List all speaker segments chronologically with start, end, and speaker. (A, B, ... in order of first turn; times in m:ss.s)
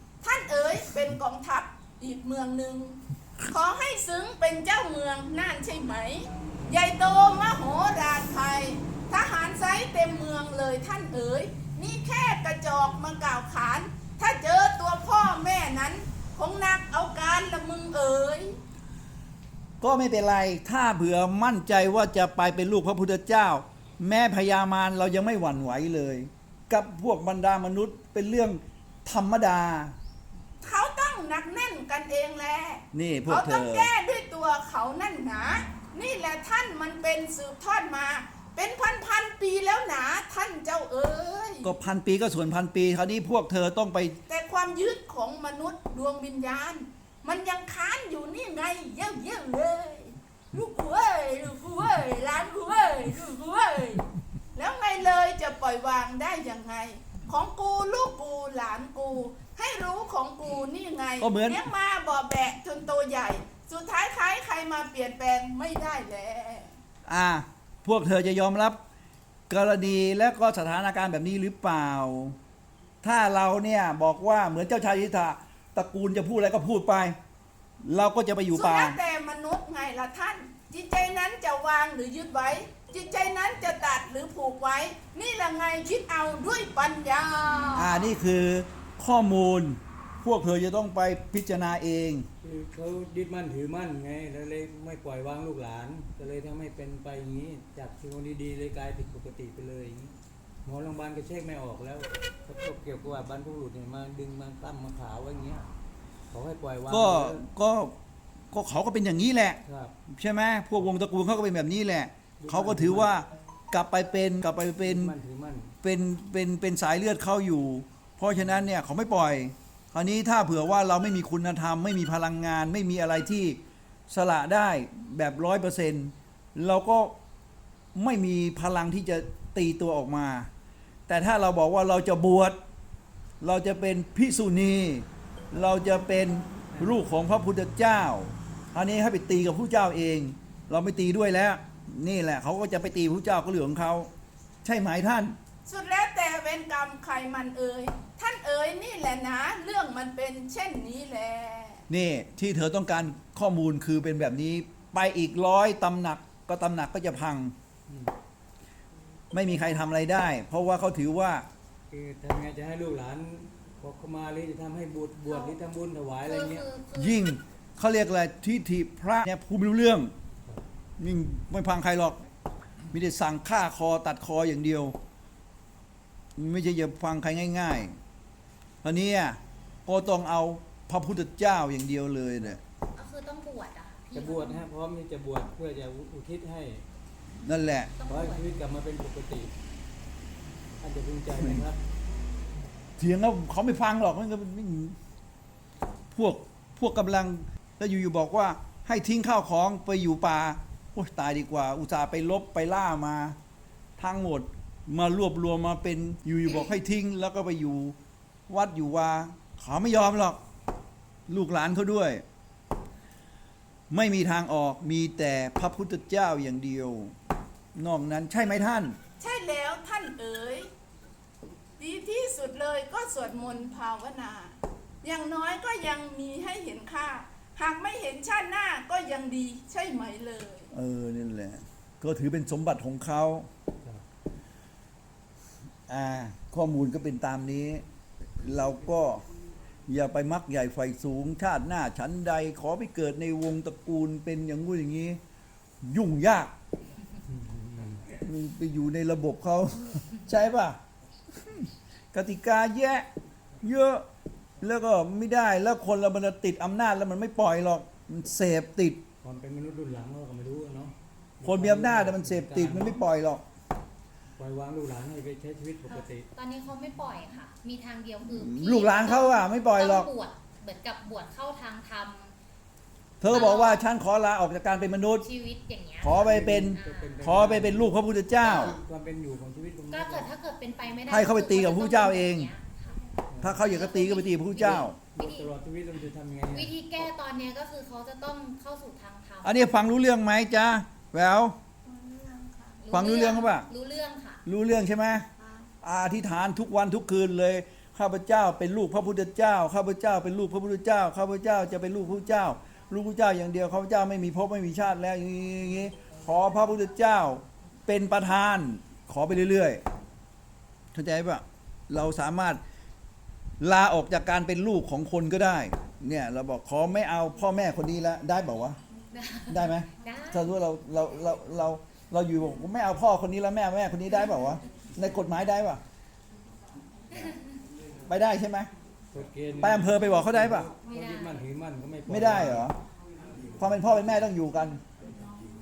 0:00.2-0:18.6 A
0:19.8-0:29.9 B
0:30.6-0:41.7 A
0:32.9-0:33.9 B
0:41.6-0:44.2 B
0:44.3-1:06.7 A
1:01.2-1:01.6 B
1:07.1-1:08.8 B
1:09.5-1:12.4 B
1:13.0-1:17.2 B
1:17.8-1:19.0 B
1:18.5-1:28.0 A
1:27.8-1:32.3 B
1:32.4-1:45.7 C
1:46.3-1:47.4 C
1:46.9-1:48.0 B
1:48.5-1:55.1 B
1:49.6-1:49.9 C
1:52.4-1:53.1 C
1:54.8-1:55.7 C
1:55.8-2:03.6 B
2:04.1-2:07.2 B
2:07.9-2:10.5 B
2:11.1-2:12.6 B
2:13.4-2:24.1 B
2:24.6-2:25.4 B
2:25.7-2:31.9 A
2:31.9-2:37.6 B
2:39.3-2:41.4 B
2:41.9-2:46.6 C
2:45.3-2:45.6 D
2:46.2-2:47.4 D
2:47.0-2:50.1 B
2:51.0-2:52.2 B
2:52.9-2:55.0 B
2:56.4-2:58.0 B
2:58.8-3:02.6 B
3:02.9-3:04.6 D
3:04.1-3:06.8 C
3:07.4-3:07.9 B
3:08.0-3:08.5 D
3:08.1-3:09.5 C
3:10.8-3:11.8 C
3:13.0-3:15.0 B
3:16.1-3:23.4 B
3:24.0-3:28.0 B
3:28.5-3:30.4 B
3:31.3-3:32.2 B
3:33.9-3:37.1 B
3:37.7-3:39.0 B
3:39.2-3:40.7 A
3:41.8-3:50.7 A
3:50.7-3:53.5 B
3:55.9-3:57.8 B
3:58.4-3:59.2 B
3:59.9-4:05.2 B
4:05.8-4:06.5 B
4:07.3-4:08.1 C
4:08.2-4:10.8 B
4:11.3-4:13.1 B
4:13.6-4:14.1 B
4:14.6-4:19.0 B
4:19.2-4:23.0 C
4:21.4-4:23.4 B
4:24.4-4:26.3 C
4:26.3-4:32.4 D
4:28.3-4:30.1 B
4:33.2-4:35.2 B
4:33.3-4:33.8 D
4:35.2-4:37.2 D
4:36.0-4:38.7 B
4:36.2-4:40.3 C
4:38.4-4:38.7 D
4:39.9-4:45.5 D
4:41.1-4:42.5 B
4:43.3-4:43.7 C
4:43.4-4:45.0 B
4:44.6-4:47.1 C
4:46.5-4:49.8 D
4:49.4-4:51.6 B
4:52.8-4:54.4 D
4:52.9-4:53.7 B
4:54.4-4:55.3 B
4:55.8-5:09.8 B
5:10.9-5:12.6 B
5:13.6-5:18.8 B
5:19.1-5:20.5 D
5:19.5-5:25.8 B
5:27.1-5:27.4 D
5:28.1-5:28.7 B
5:29.1-5:32.7 C
5:29.6-5:30.7 B
5:30.9-5:31.4 D
5:32.1-5:32.7 B
5:33.6-5:34.8 B